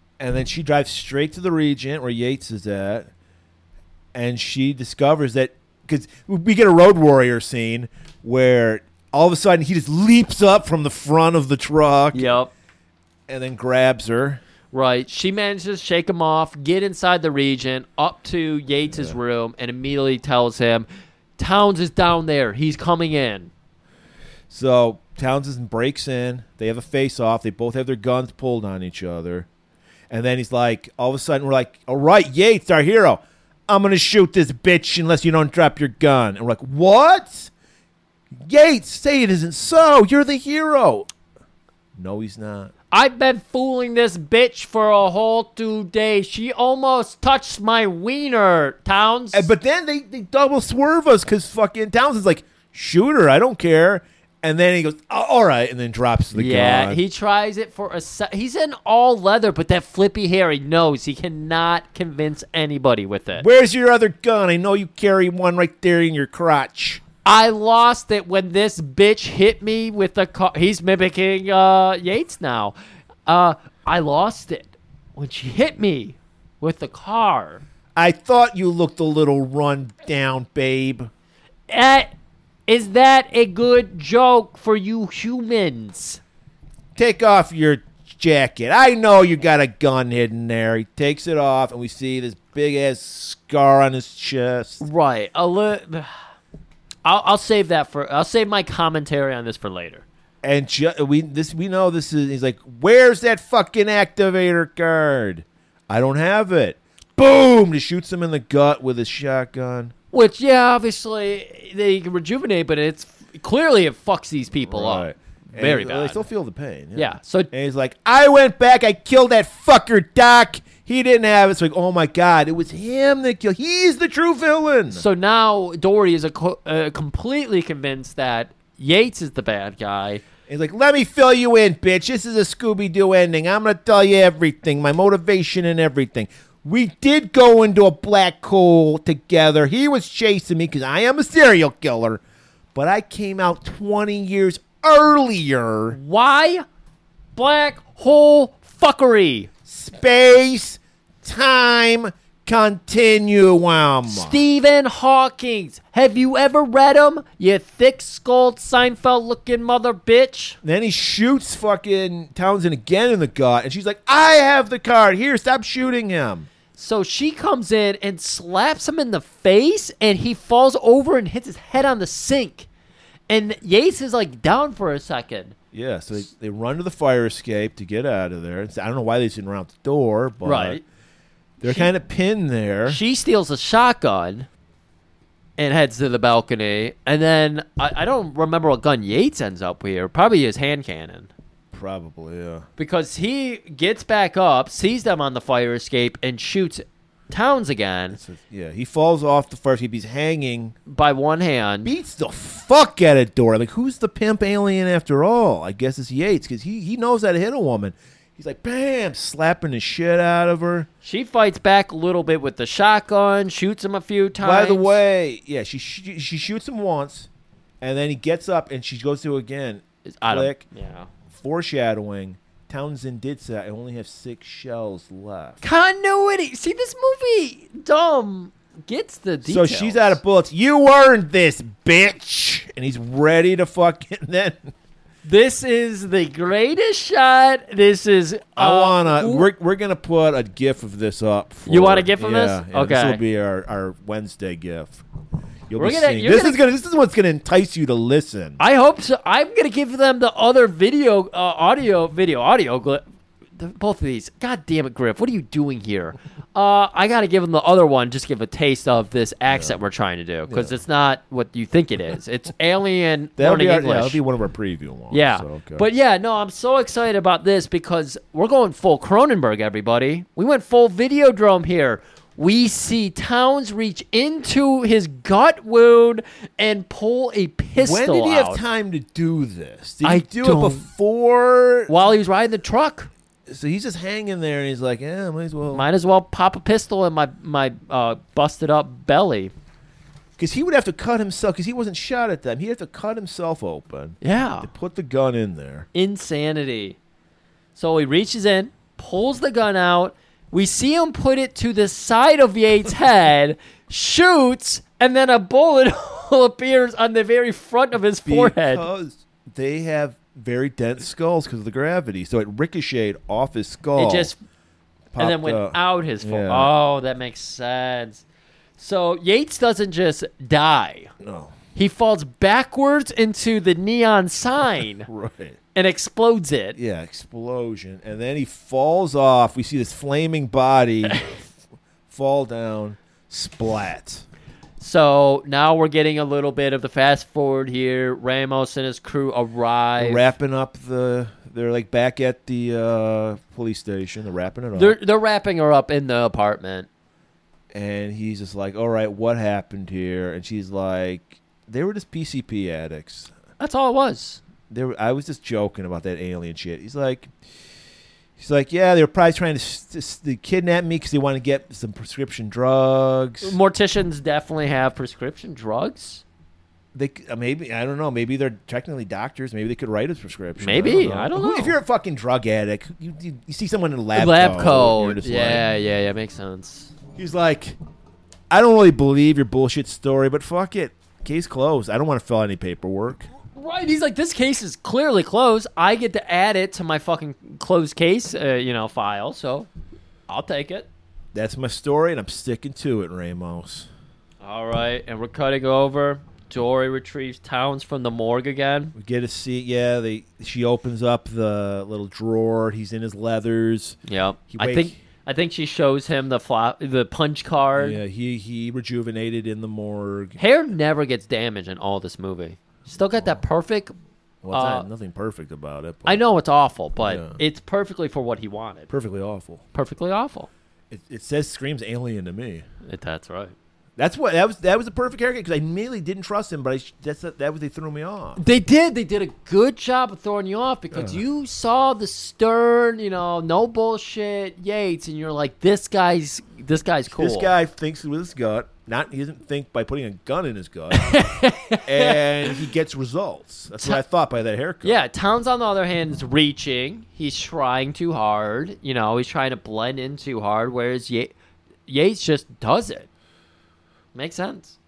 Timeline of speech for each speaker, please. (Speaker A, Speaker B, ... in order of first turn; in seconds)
Speaker A: 0.2-3.1, 4.1-12.4, 13.3-14.4, 18.9-19.2, 24.5-29.5, 30.1-37.5, 38.4-41.1, 42.0-42.7, 49.3-57.0, 63.4-67.0, 78.0-81.1, 87.0-94.8, 100.4-109.9, 114.7-125.0, 130.5-142.2, 142.8-146.0, 149.7-154.4, 160.6-166.5, 175.7-180.8, 181.6-183.0, 191.7-192.7, 198.1-200.8, 201.8-210.9, 214.4-217.3, 217.8-220.7, 221.3-225.6, 229.5-234.7, 238.6-245.0, 245.7-248.6, 259.5-259.8, 260.5-260.8, 263.4-265.9, 277.8-281.9, 283.5-285.9, 290.4-295.9, 308.2-314.3, 315.1-316.7, 321.2-321.6, 325.1-325.6, 326.8-331.5, 332.1-334.2, 340.0-345.0, 347.7-353.3, 354.7-357.3, 358.4-363.6, 366.9-375.7, 377.1-377.8, 378.5-383.3, 391.3-393.9, 398.9-404.0, 404.5-405.0, 407.8-410.4, 414.4-416.2, 417.0-417.4, 418.9-419.6, 420.9-422.6, 424.0-428.4, 430.9-431.2, 437.1-441.2, 441.9-445.0
Speaker B: 12.1-12.5, 14.7-20.9, 21.4-23.5, 42.9-49.5, 56.3-63.5, 67.2-72.8, 73.3-77.6, 81.7-82.1, 82.7-86.2, 94.8-96.1, 97.0-100.0, 110.1-116.2, 117.0-117.5, 124.9-130.2, 145.9-146.7, 147.4-149.5, 154.1-160.6, 166.8-172.7, 173.3-175.6, 180.4-180.8, 181.6-181.9, 182.9-184.5, 185.6-191.3, 192.8-198.2, 200.9-201.9, 211.0-215.0, 220.1-221.1, 225.6-230.2, 235.2-239.5, 241.7-243.2, 245.8-246.6, 248.6-253.0, 253.6-264.2, 265.1-278.6, 280.0-280.9, 281.9-283.1, 285.7-289.5, 294.2-294.7, 295.9-297.0, 297.8-308.9, 314.0-314.4, 315.2-318.2, 318.8-321.1, 321.8-325.1, 325.8-326.8, 334.8-340.3, 344.8-346.9, 353.6-354.4, 363.4-366.2, 370.6-371.8, 374.1-376.9, 383.6-389.7, 390.3-390.9, 394.4-398.9, 404.1-408.0, 410.4-413.9, 414.5-414.9, 416.1-418.9, 419.7-420.5, 422.9-423.5, 428.4-437.5, 440.9-442.6, 444.8-451.3, 451.9-453.1, 454.1-454.8